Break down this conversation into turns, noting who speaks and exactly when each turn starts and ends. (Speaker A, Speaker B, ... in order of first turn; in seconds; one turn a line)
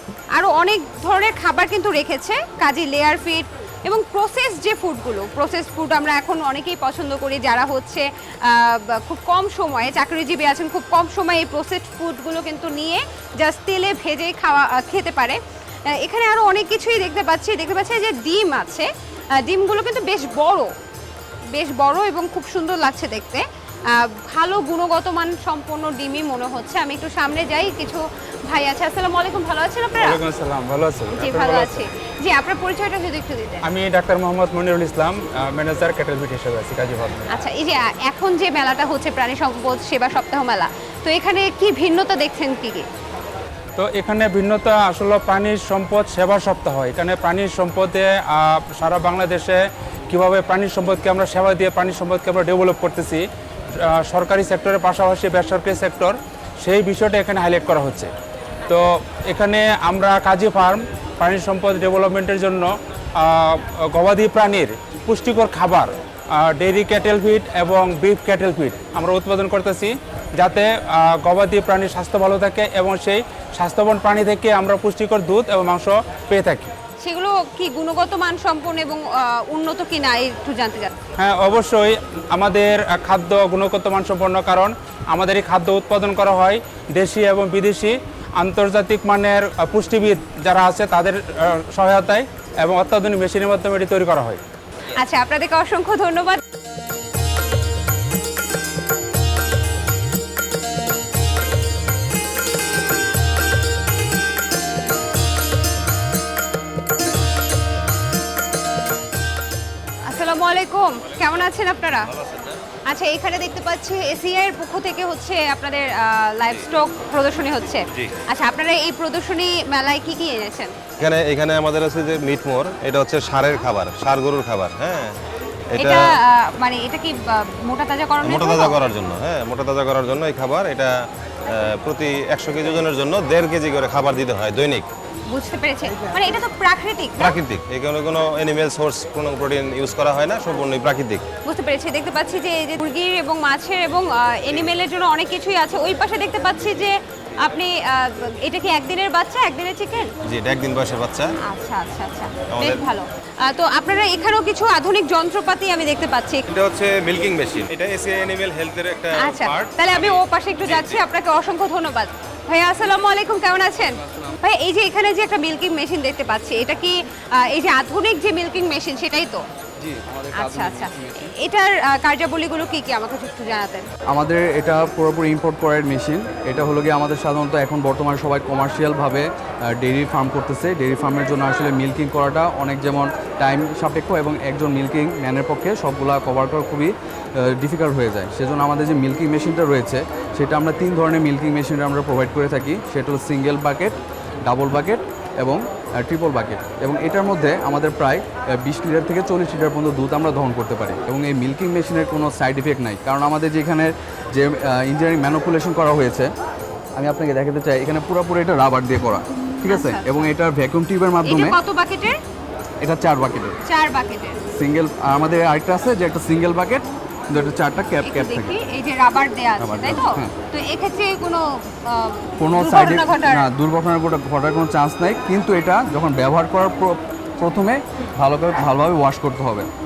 Speaker A: 0.3-15.4
Speaker A: 16.0-18.9
Speaker A: 19.4-20.7
Speaker A: 21.5-30.2
Speaker B: 30.0-31.8
Speaker A: 31.1-33.6
Speaker B: 33.6-37.3
Speaker A: 37.3-42.9
Speaker B: 43.8-53.2
Speaker B: 53.8-58.1
Speaker B: 58.7-76.7
Speaker A: 77.0-81.0
Speaker B: 81.2-94.4
Speaker A: 94.9-96.4
Speaker A: 110.0-112.1
Speaker A: 112.8-120.7
Speaker C: 121.0-125.2
Speaker C: 125.8-126.0
Speaker A: 125.8-128.8
Speaker C: 128.2-130.9
Speaker C: 131.5-134.9
Speaker A: 135.3-137.4
Speaker C: 137.2-141.2
Speaker A: 141.4-150.1
Speaker C: 150.2-151.3
Speaker A: 151.4-156.5
Speaker C: 152.5-152.8
Speaker C: 156.5-161.0
Speaker A: 159.2-169.4
Speaker D: 164.0-164.4
Speaker D: 169.8-171.3
Speaker A: 170.3-173.9
Speaker D: 174.1-206.3
Speaker D: 206.9-211.6
Speaker A: 209.6-210.3
Speaker A: 211.2-212.2
Speaker D: 212.8-213.6
Speaker A: 213.6-214.4
Speaker D: 214.5-218.6
Speaker A: 218.0-223.5
Speaker D: 219.6-220.3
Speaker D: 222.4-229.7